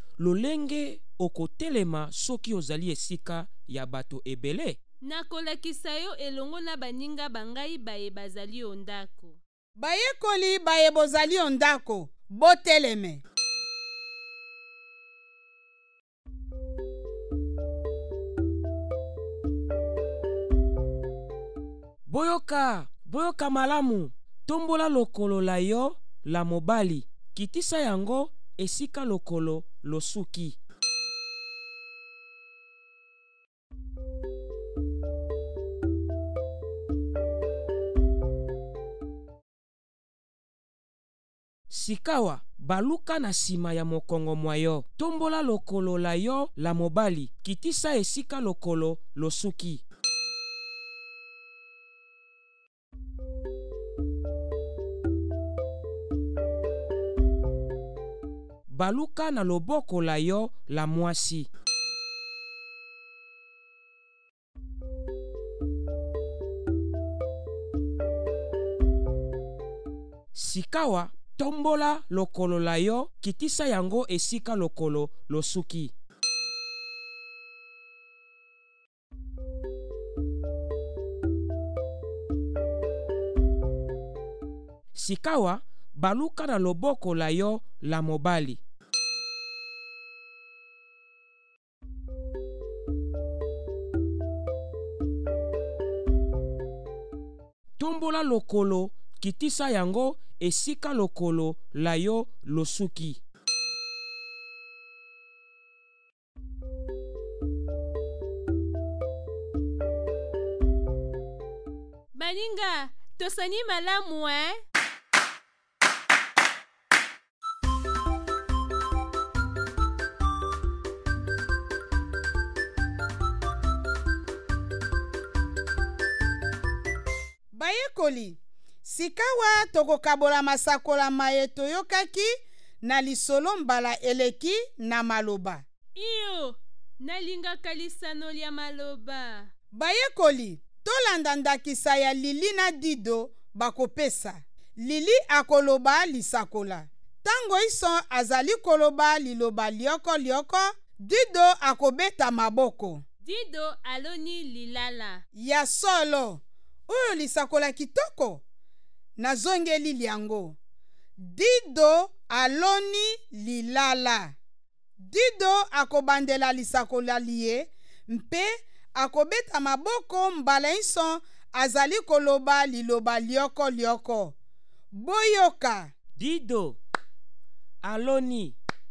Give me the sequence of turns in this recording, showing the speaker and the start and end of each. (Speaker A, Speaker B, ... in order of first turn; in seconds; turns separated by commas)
Speaker A: 0.2-4.8, Speaker B: 5.0-9.4, Speaker C: 9.8-13.2, Speaker A: 22.1-30.6, Speaker A: 41.7-49.8, Speaker A: 58.7-61.5, Speaker A: 70.3-75.9, Speaker A: 85.0-88.6, Speaker A: 97.8-103.2, Speaker B: 112.1-114.6, Speaker C: 127.5-132.3, Speaker C: 132.8-135.6, Speaker B: 135.9-139.5, Speaker C: 139.7-153.0, Speaker B: 153.2-155.2, Speaker C: 155.3-158.4, Speaker C: 159.2-160.6, Speaker C: 161.2-164.3, Speaker C: 165.0-174.3, Speaker C: 174.9-175.9, Speaker A: 176.2-176.8, Speaker A: 177.8-178.6